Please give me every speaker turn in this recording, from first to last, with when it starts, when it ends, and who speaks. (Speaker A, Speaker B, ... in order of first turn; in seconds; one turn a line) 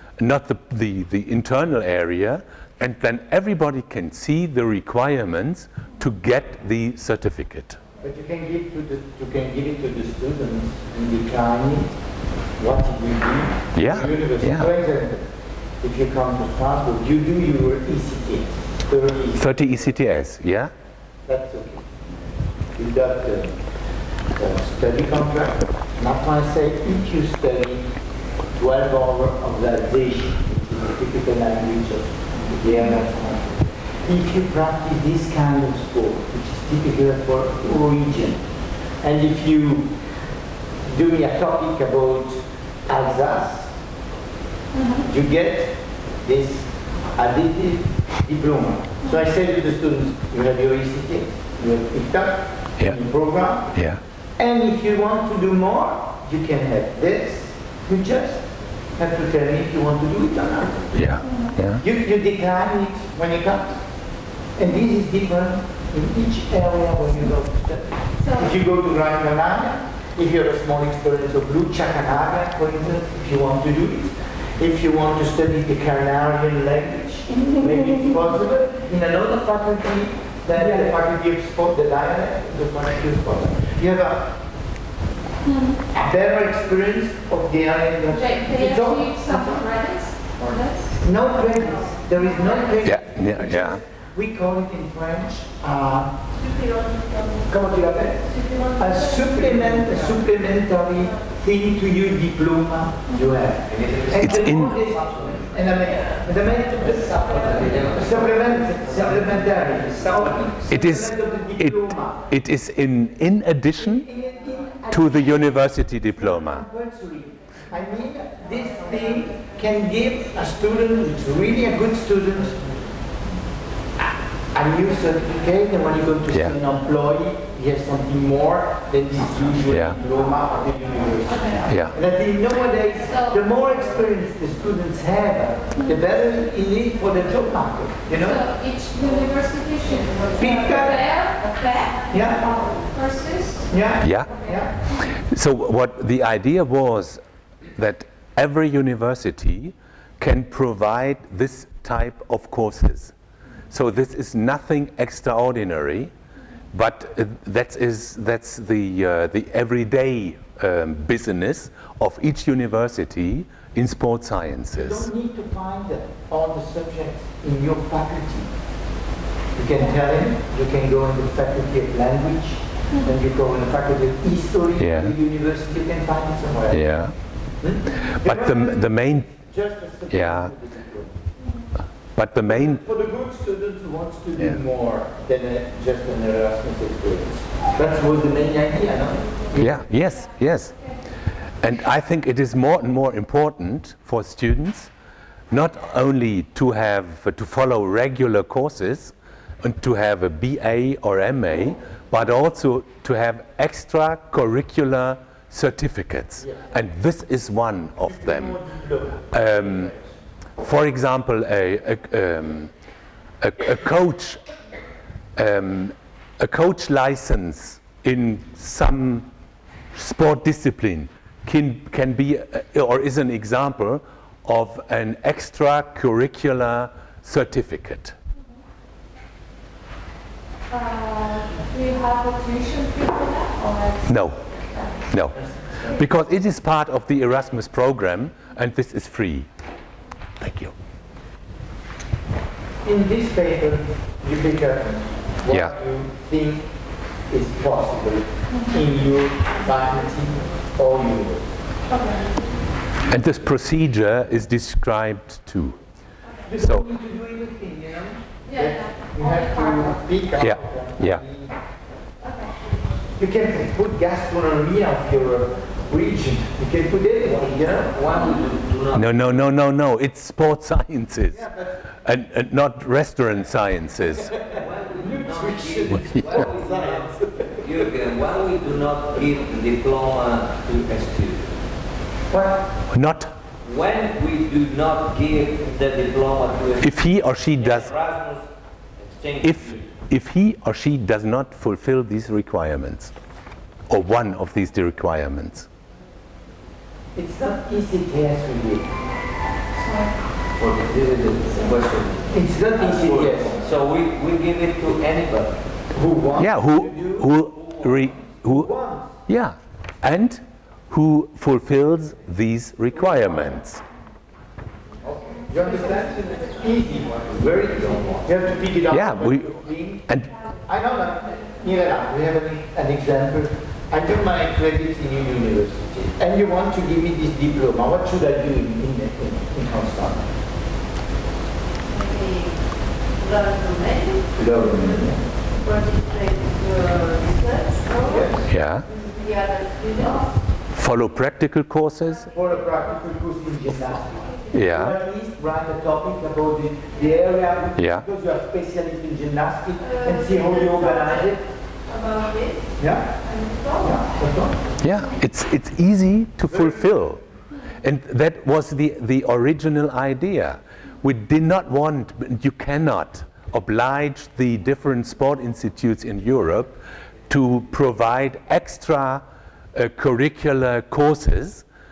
Speaker A: 0.2-7.8
Speaker B: 8.0-15.3
Speaker A: 13.7-14.7
Speaker B: 15.8-19.6
Speaker A: 19.4-20.7
Speaker B: 21.2-22.0
Speaker B: 22.7-23.7
Speaker B: 24.3-27.9
Speaker B: 28.5-40.2
Speaker B: 40.8-43.7
Speaker C: 44.7-45.0
Speaker B: 45.0-53.7
Speaker A: 53.7-54.0
Speaker B: 54.4-61.2
Speaker A: 60.9-61.8
Speaker C: 61.2-61.5
Speaker B: 61.8-63.8
Speaker B: 64.5-84.4
Speaker C: 85.4-85.8
Speaker B: 85.9-89.7
Speaker C: 88.1-91.0
Speaker B: 91.0-96.2
Speaker C: 92.2-92.7
Speaker A: 92.8-93.8
Speaker D: 96.3-97.6
Speaker B: 97.5-112.3
Speaker D: 98.2-100.3
Speaker E: 103.7-105.8
Speaker A: 104.1-104.8
Speaker D: 105.7-106.3
Speaker E: 106.6-110.8
Speaker D: 106.8-108.1
Speaker A: 110.7-114.1
Speaker B: 113.8-115.2
Speaker A: 114.8-116.7
Speaker B: 116.2-122.8
Speaker B: 124.5-138.4
Speaker A: 126.3-126.6
Speaker A: 129.7-130.0
Speaker A: 131.7-131.9
Speaker C: 133.1-133.4
Speaker C: 138.1-144.6
Speaker B: 140.4-141.0
Speaker B: 142.1-142.5
Speaker B: 143.7-144.8
Speaker A: 144.0-144.3
Speaker A: 144.9-147.2
Speaker A: 147.7-153.1
Speaker A: 153.7-156.1
Speaker A: 156.7-165.1
Speaker B: 164.7-168.5
Speaker B: 169.5-177.1
Speaker A: 174.8-175.1
Speaker A: 176.7-177.2
Speaker B: 177.6-181.2
Speaker A: 178.1-179.3
Speaker A: 180.1-180.5
Speaker A: 182.1-182.8
Speaker B: 182.5-189.8
Speaker A: 189.5-190.9
Speaker A: 191.6-194.9
Speaker A: 195.5-208.6
Speaker B: 208.0-210.0
Speaker A: 209.3-209.9
Speaker A: 210.6-212.7
Speaker A: 213.4-214.4
Speaker A: 215.3-219.3
Speaker A: 219.9-228.2
Speaker C: 230.7-235.1
Speaker A: 234.1-234.4
Speaker A: 235.1-239.5
Speaker A: 240.4-240.7
Speaker B: 242.8-251.5
Speaker A: 245.5-245.7
Speaker C: 251.9-252.2
Speaker D: 251.9-252.3
Speaker A: 253.0-255.8
Speaker B: 256.5-261.5
Speaker A: 256.6-256.9
Speaker C: 258.5-260.0
Speaker A: 260.4-261.2
Speaker C: 262.2-262.5
Speaker B: 263.2-268.0
Speaker E: 267.8-269.2
Speaker A: 268.9-274.4
Speaker B: 271.3-271.8
Speaker B: 274.3-277.6
Speaker E: 274.5-281.6
Speaker B: 282.3-282.7
Speaker A: 282.9-283.4
Speaker E: 283.6-289.9
Speaker A: 286.8-287.9
Speaker A: 289.4-293.1
Speaker A: 293.9-295.7
Speaker B: 297.1-298.9
Speaker C: 299.8-300.1
Speaker E: 300.5-305.6
Speaker B: 302.3-303.6
Speaker B: 305.9-309.2
Speaker A: 306.4-308.7
Speaker A: 309.3-313.8
Speaker B: 313.0-313.6
Speaker B: 315.1-330.3
Speaker E: 315.2-318.6
Speaker A: 318.9-320.4
Speaker D: 331.8-338.3
Speaker B: 334.3-335.2
Speaker B: 338.0-338.4
Speaker A: 338.4-338.9
Speaker D: 338.9-340.2
Speaker A: 340.7-342.4
Speaker B: 342.3-351.4
Speaker A: 344.5-345.0
Speaker A: 347.8-348.1
Speaker D: 349.8-354.0
Speaker B: 352.8-353.1
Speaker B: 353.8-354.7
Speaker A: 354.8-357.2
Speaker B: 356.5-356.9
Speaker A: 357.8-371.6